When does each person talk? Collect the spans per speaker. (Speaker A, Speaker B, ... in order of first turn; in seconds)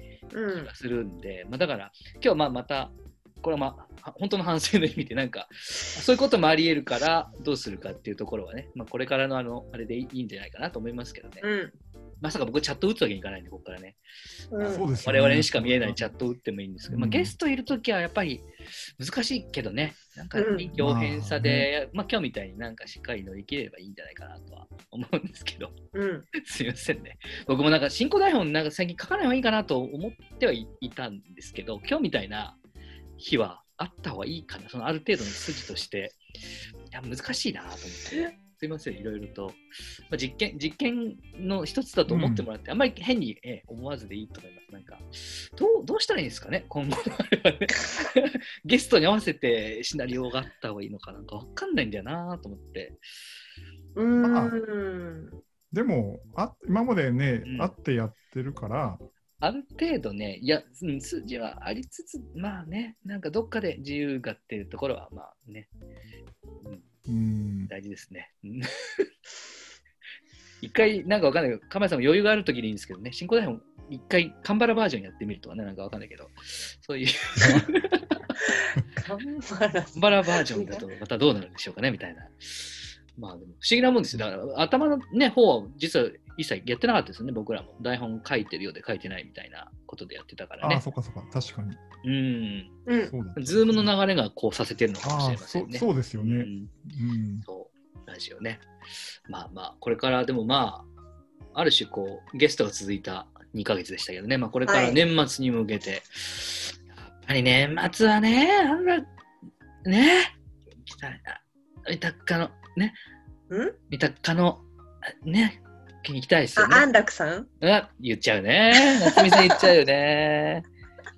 Speaker A: 0.3-0.7, 11.4-11.7, 14.5-14.9, 20.4-20.7, 25.9-26.3, 54.0-55.4, 78.9-80.8, 92.9-93.1, 104.7-105.0, 113.5-113.8, 116.6-117.5, 118.8-119.5
Speaker B: 0.6-11.4, 12.2-14.0, 15.0-25.7, 26.4-32.6, 33.2-36.2, 36.9-53.0, 57.5-57.7, 59.4-65.7, 67.7-69.1, 70.6-78.3, 79.9-90.8, 92.0-92.7, 93.3-96.7, 97.4-98.7, 99.3-100.9, 101.5-109.1, 109.8-110.3, 110.8-113.0, 113.9-114.6, 115.2-116.9, 117.6-120.7
Speaker C: 14.6-16.1, 16.9-17.3, 20.8-21.7, 42.1-42.5, 54.2-54.5, 55.7-59.0, 67.1-67.7, 90.6-91.8, 93.1-93.9, 95.0-97.5